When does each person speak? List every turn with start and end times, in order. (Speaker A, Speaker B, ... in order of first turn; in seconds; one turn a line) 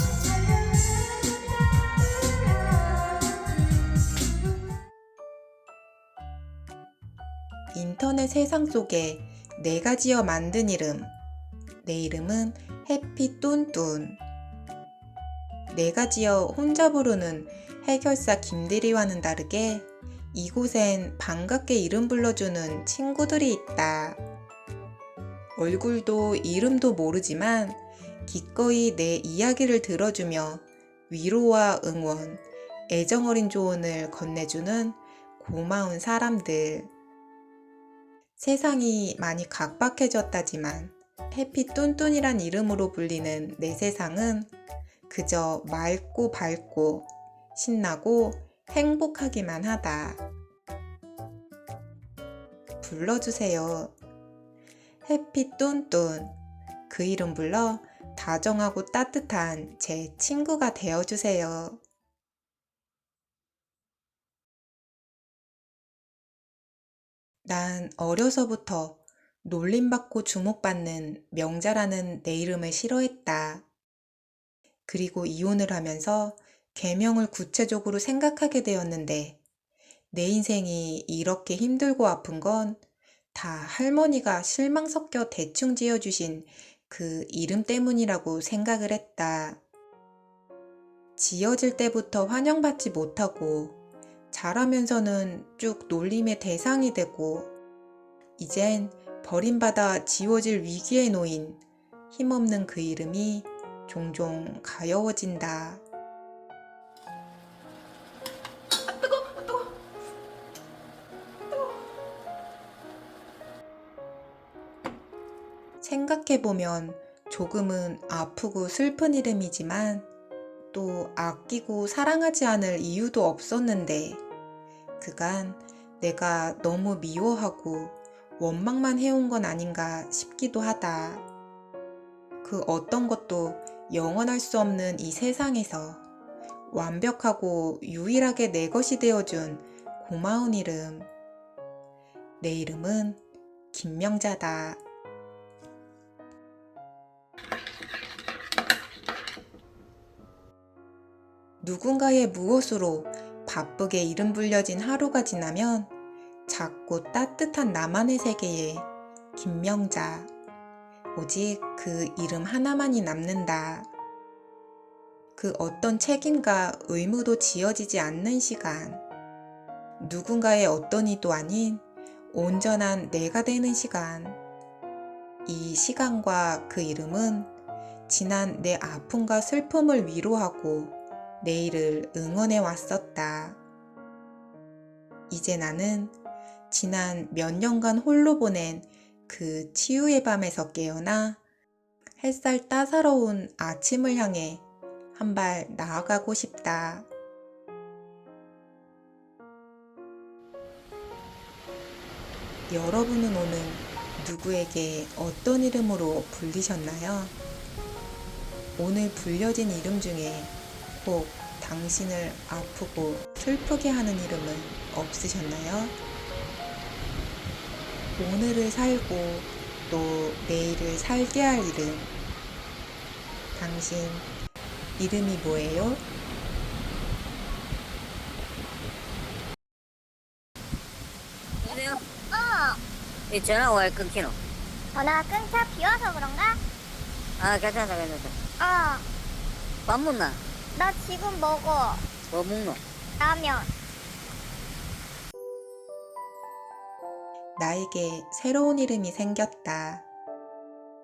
Speaker A: 7.7-11.1
Speaker A: 11.8-14.2
Speaker A: 15.7-24.2
Speaker A: 25.6-36.9
Speaker A: 38.4-44.5
Speaker A: 45.1-50.2
Speaker A: 52.8-53.9
Speaker A: 55.0-56.3
Speaker A: 56.9-61.8
Speaker A: 67.5-73.6
Speaker A: 74.9-79.4
Speaker A: 80.1-82.8
Speaker A: 83.3-89.6
Speaker A: 91.2-93.8
Speaker A: 94.3-97.5
Speaker A: 98.4-105.8
Speaker A: 115.8-120.1
Speaker A: 120.7-124.2
Speaker A: 125.0-131.2
Speaker A: 132.4-136.0
Speaker A: 136.7-141.1
Speaker A: 142.4-143.2
Speaker A: 143.7-144.8
Speaker A: 151.6-155.9
Speaker A: 156.5-160.3
Speaker A: 161.2-163.9
Speaker A: 165.4-169.0
Speaker A: 170.0-174.4
Speaker A: 175.5-177.5
Speaker A: 178.1-183.6
Speaker A: 185.3-186.2
Speaker A: 186.7-191.4
Speaker A: 192.2-197.1
Speaker A: 202.7-207.3
Speaker A: 208.8-216.0
Speaker A: 218.2-222.1
Speaker A: 223.6-224.3
Speaker A: 225.0-226.0
Speaker B: 231.6-232.0
Speaker C: 232.3-232.8
Speaker B: 233.3-234.4
Speaker C: 234.9-236.6
Speaker B: 237.4-238.4
Speaker C: 238.6-239.1
Speaker B: 239.9-240.4
Speaker C: 240.7-242.0
Speaker B: 242.3-242.8
Speaker C: 243.2-243.7
Speaker A: 247.6-250.1